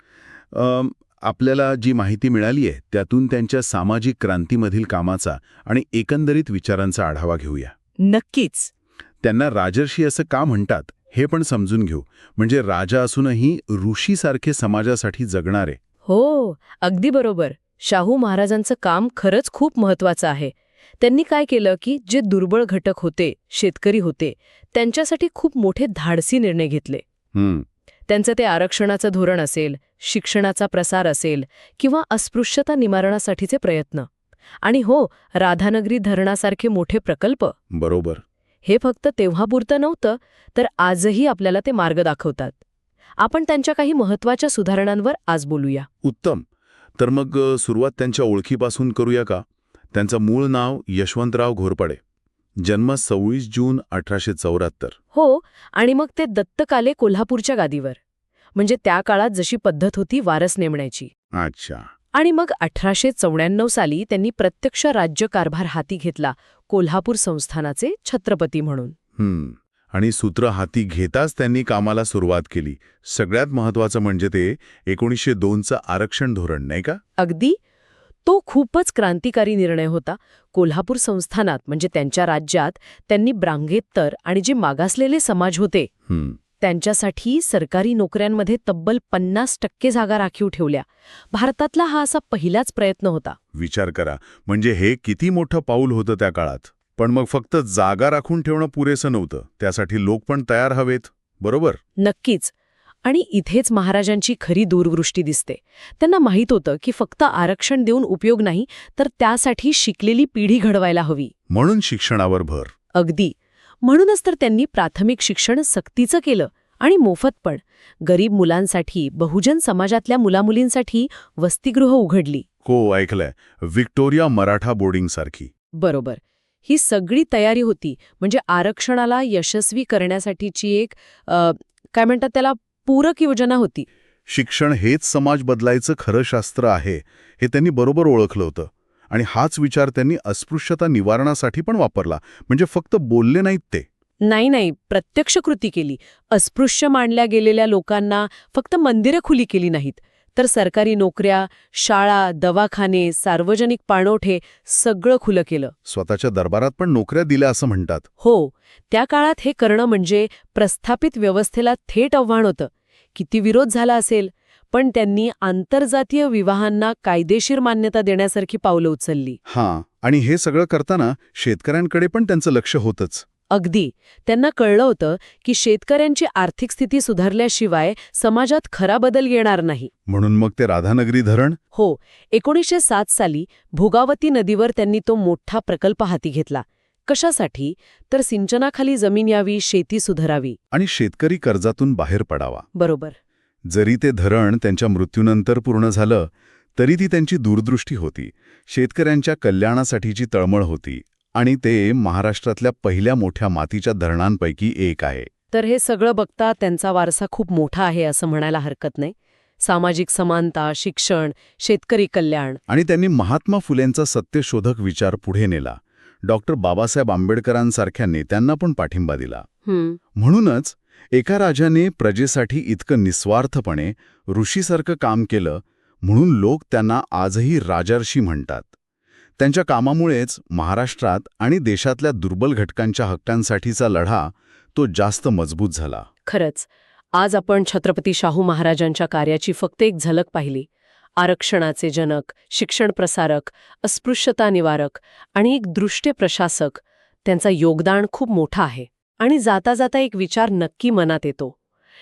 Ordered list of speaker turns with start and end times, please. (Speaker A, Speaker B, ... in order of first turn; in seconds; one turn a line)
Speaker A: 0.5-7.8
Speaker B: 8.0-8.7
Speaker A: 9.2-15.8
Speaker B: 16.1-27.0
Speaker A: 27.4-27.6
Speaker B: 28.1-34.1
Speaker B: 34.6-37.5
Speaker A: 37.7-38.2
Speaker B: 38.6-42.6
Speaker B: 43.2-45.9
Speaker A: 46.0-46.5
Speaker A: 47.0-52.0
Speaker A: 52.6-55.0
Speaker B: 55.1-58.0
Speaker B: 58.5-61.1
Speaker A: 61.3-61.9
Speaker B: 62.1-68.9
Speaker A: 69.2-77.0
Speaker B: 77.2-77.6
Speaker B: 78.2-85.9
Speaker A: 86.1-86.4
Speaker B: 86.6-93.4
Speaker A: 93.5-101.8
Speaker B: 102.0-102.5
Speaker B: 103.0-111.3
Speaker A: 111.5-112.7
Speaker B: 112.9-122.4
Speaker A: 122.7-125.5
Speaker B: 125.8-133.9
Speaker A: 134.3-143.9
Speaker B: 144.2-155.7
Speaker A: 155.8-158.0
Speaker B: 158.2-169.4
Speaker A: 169.5-173.2
Speaker B: 173.5-179.9
Speaker A: 180.1-181.6
Speaker B: 181.7-190.6
Speaker A: 190.7-192.7
Speaker B: 192.8-193.2
Speaker A: 193.7-205.3
Speaker B: 205.5-212.6
Speaker A: 212.7-219.4
Speaker B: 219.7-220.0
Speaker A: 220.2-228.7
Speaker A: 229.4-236.1
Speaker B: 236.2-251.5